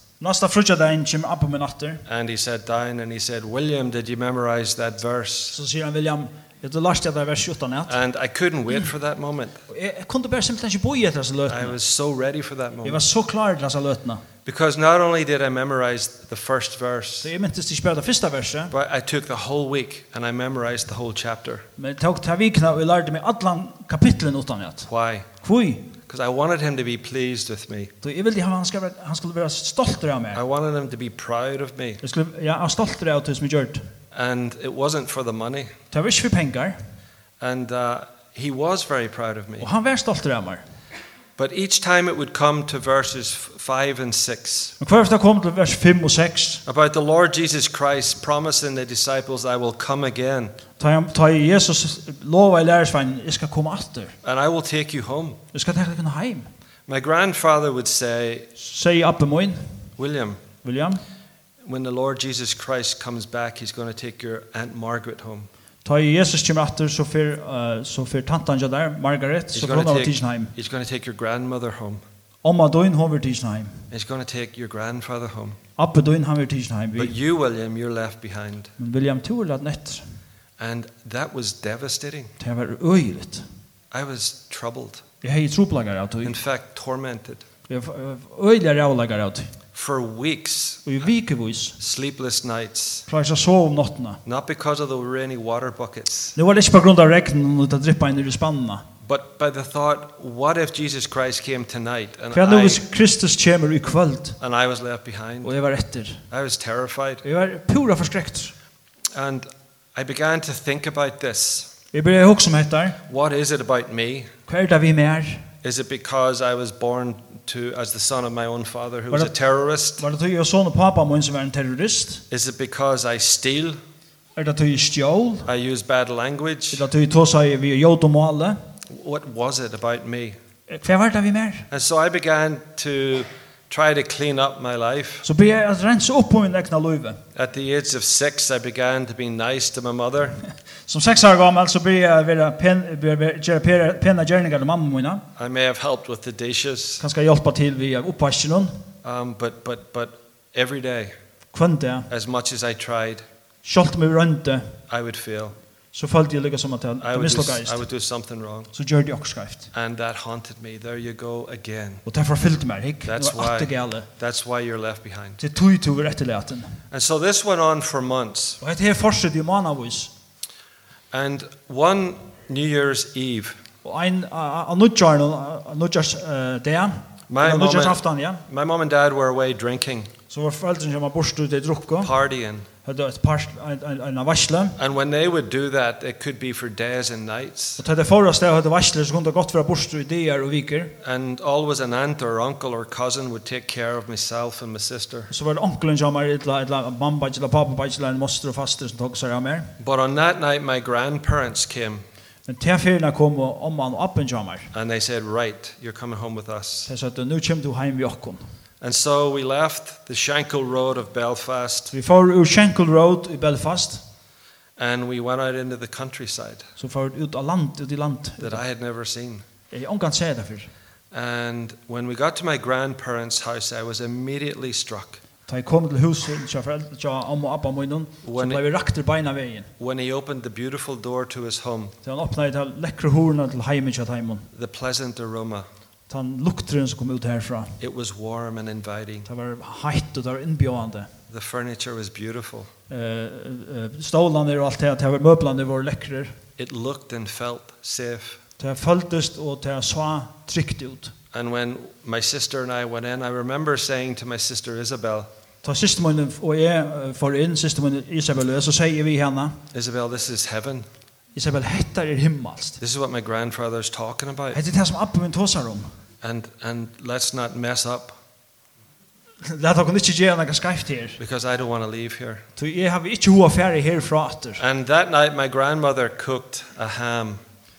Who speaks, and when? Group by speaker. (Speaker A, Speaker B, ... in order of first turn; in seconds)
Speaker A: 0.2-2.0, 5.5-8.0, 9.7-11.8, 12.8-14.2, 17.2-18.7, 21.8-24.9, 25.4-25.9, 28.0-30.4, 32.0-33.8, 35.9-36.8, 39.6-40.6, 44.8-46.6, 50.8-54.1, 55.5-56.5, 58.6-59.6, 60.6-61.0, 65.8-70.5, 72.4-73.8, 75.8-77.1, 78.8-80.0, 82.4-83.4, 85.2-86.3, 87.7-89.5, 90.8-91.8, 93.1-94.2, 96.3-98.8, 102.3-104.4, 105.4-106.2, 107.2-108.5, 111.9-113.0, 114.5-115.5, 120.0-122.2, 124.3-125.5, 126.7-128.6, 130.7-131.7, 135.2-137.2, 140.9-145.2, 147.0-148.8, 151.5-152.1, 153.6-154.7, 155.9-157.8, 158.7-159.7, 162.1-164.1, 165.4-166.8, 168.6-170.1, 173.8-178.4, 180.3-182.1, 182.8-184.8, 187.8-190.9, 195.3-199.7, 202.5-204.7, 206.9-208.4, 211.9-214.0, 216.8-218.6, 219.7-220.7, 225.5-229.7, 232.0-234.5, 236.1-237.8, 239.2-241.1, 242.9-246.3, 248.6-251.1, 255.6-259.6, 261.3-262.8, 264.5-265.9, 269.4-271.2, 272.6-274.6
Speaker B: 2.1-5.6, 7.9-9.6, 11.5-13.0, 14.4-17.3, 18.7-21.6, 24.9-25.3, 26.1-27.9, 30.3-32.0, 34.1-35.7, 37.4-39.7, 41.4-44.7, 46.6-50.5, 54.2-55.4, 56.9-58.5, 60.0-60.4, 61.6-65.5, 69.5-72.0, 73.9-75.6, 77.0-78.7, 80.6-82.3, 83.9-85.0, 86.2-87.4, 89.7-90.8, 91.8-93.1, 94.2-96.4, 99.0-102.8, 104.4-105.5, 106.3-107.2, 109.1-111.7, 113.1-114.3, 115.6-120.0, 122.3-123.8, 125.4-126.8, 128.9-130.4, 131.7-135.2, 137.3-140.4, 145.4-147.0, 149.0-151.1, 152.1-153.2, 154.9-155.5, 157.0-158.7, 159.7-162.0, 163.1-165.4, 166.9-168.6, 171.1-173.6, 177.3-180.1, 182.0-182.7, 184.8-187.8, 191.0-195.3, 199.8-202.0, 204.7-206.9, 208.8-211.9, 214.8-216.7, 218.4-219.4, 221.1-225.2, 228.2-228.6, 229.8-231.9, 234.5-235.7, 237.8-239.3, 241.3-242.7, 246.6-248.4, 251.3-255.3, 259.7-260.9, 262.8-264.6, 266.2-268.2, 271.2-272.4, 274.6-277.4